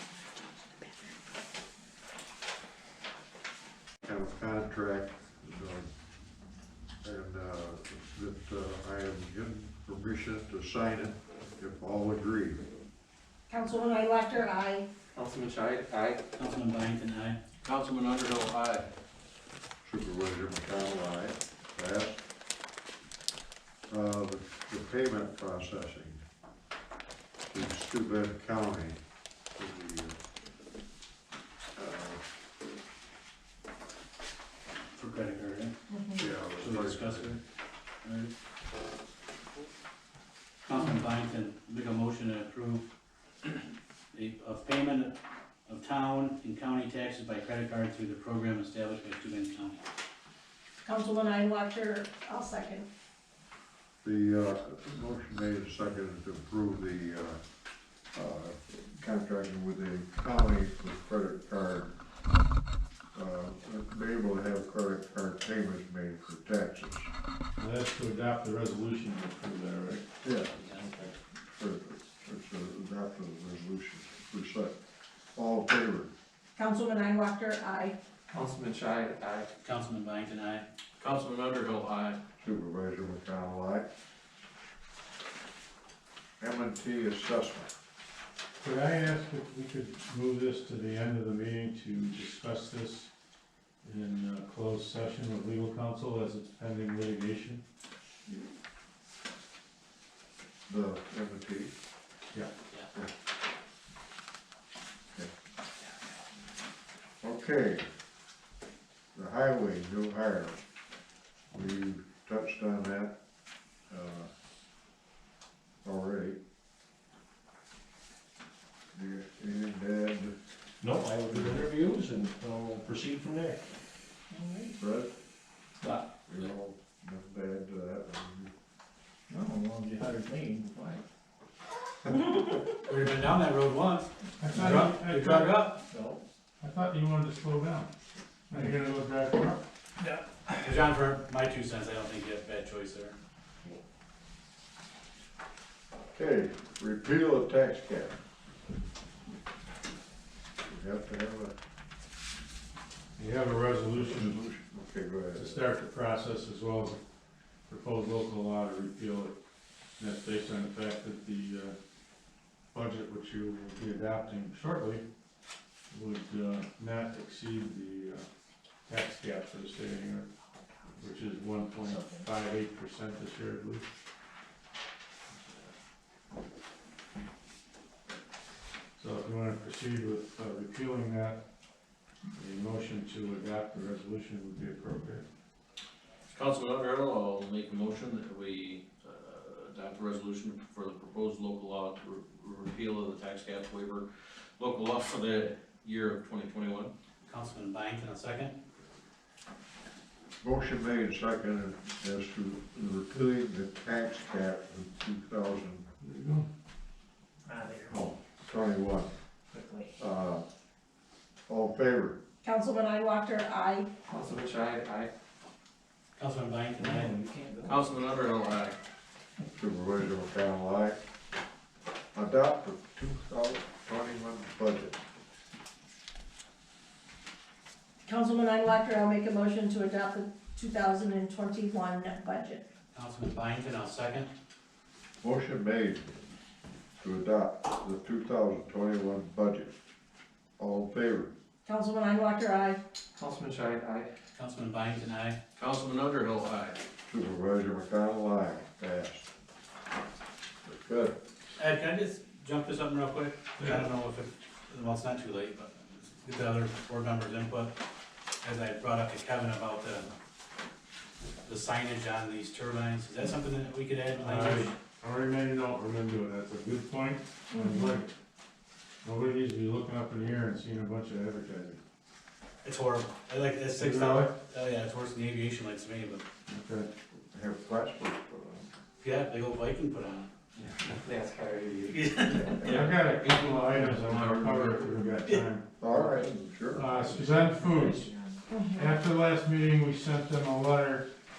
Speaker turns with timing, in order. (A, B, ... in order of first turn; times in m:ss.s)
0:04.0-0:05.9 A
0:07.0-0:12.6 A
0:13.5-0:14.9 B
0:15.2-0:16.2 C
0:16.4-0:17.4 D
0:17.6-0:18.9 E
0:19.8-0:22.2 A
0:23.9-0:26.2 A
0:27.5-0:29.0 A
0:29.6-0:30.2 A
0:31.8-0:32.2 A
0:35.0-0:37.4 D
0:35.9-0:36.2 B
0:36.2-0:37.4 A
0:38.0-0:38.3 D
0:40.6-0:42.9 D
0:44.1-0:45.2 D
0:45.7-0:49.8 D
0:50.8-0:52.9 B
0:54.0-0:57.4 A
0:58.1-1:01.9 A
1:03.2-1:07.1 A
1:07.6-1:10.0 F
1:10.2-1:10.5 A
1:11.4-1:14.8 A
1:15.4-1:16.1 A
1:16.6-1:18.0 B
1:18.3-1:19.5 C
1:19.6-1:20.6 D
1:21.0-1:22.2 E
1:22.4-1:23.9 A
1:26.4-1:27.7 A
1:28.6-1:33.1 F
1:33.8-1:37.6 F
1:40.7-1:41.7 A
1:47.2-1:47.8 A
1:49.2-1:50.6 A
1:51.5-1:53.2 A
1:53.9-1:54.3 A
1:55.8-1:56.4 A
1:58.9-2:00.4 A
2:00.8-2:03.7 G
2:01.3-2:01.7 A
2:04.8-2:05.1 A
2:06.3-2:08.5 A
2:12.8-2:15.8 D
2:14.4-2:15.6 F
2:16.6-2:17.9 F
2:18.5-2:19.6 F
2:20.6-2:23.2 D
2:26.1-2:28.2 A
2:30.7-2:31.5 A
2:33.2-2:34.4 F
2:34.0-2:35.6 A
2:35.4-2:37.0 F
2:37.7-2:39.4 F
2:40.0-2:41.8 F
2:42.7-2:45.0 F
2:45.9-2:48.2 F
2:48.9-2:50.3 F
2:51.0-2:53.8 F
2:59.0-3:01.4 F
3:02.4-3:05.2 F
3:06.3-3:14.1 E
3:14.6-3:16.9 E
3:17.3-3:18.6 D
3:20.4-3:25.8 A
3:26.0-3:26.5 F
3:27.9-3:29.1 A
3:30.0-3:30.4 A
3:31.5-3:32.2 A
3:32.4-3:33.9 B
3:34.1-3:35.1 C
3:36.2-3:37.1 D
3:37.7-3:38.8 E
3:39.6-3:41.0 A
3:42.2-3:45.0 A
3:48.1-3:52.6 B
3:52.9-3:54.3 D
3:55.2-3:56.1 A
3:57.0-3:59.7 A
4:00.6-4:01.3 A
4:01.6-4:02.8 B
4:03.2-4:04.1 C
4:04.4-4:05.4 D
4:05.6-4:06.8 E
4:07.1-4:09.3 A
4:10.6-4:11.1 A
4:11.6-4:17.8 D
4:18.4-4:20.1 D
4:21.4-4:24.7 D
4:24.2-4:28.1 F
4:27.5-4:27.9 B
4:29.0-4:31.8 F
4:32.6-4:36.2 D
4:33.8-4:34.3 F
4:36.5-4:36.9 F
4:37.3-4:38.6 A
4:39.0-4:40.3 D
4:40.6-4:43.0 C
4:41.9-4:42.5 D
4:42.6-4:45.2 E
4:42.7-4:45.7 F
4:45.8-4:46.9 A
4:45.9-4:46.4 C
4:46.8-4:48.1 F
4:47.0-4:48.4 C
4:48.5-4:48.9 B
4:48.8-4:51.1 F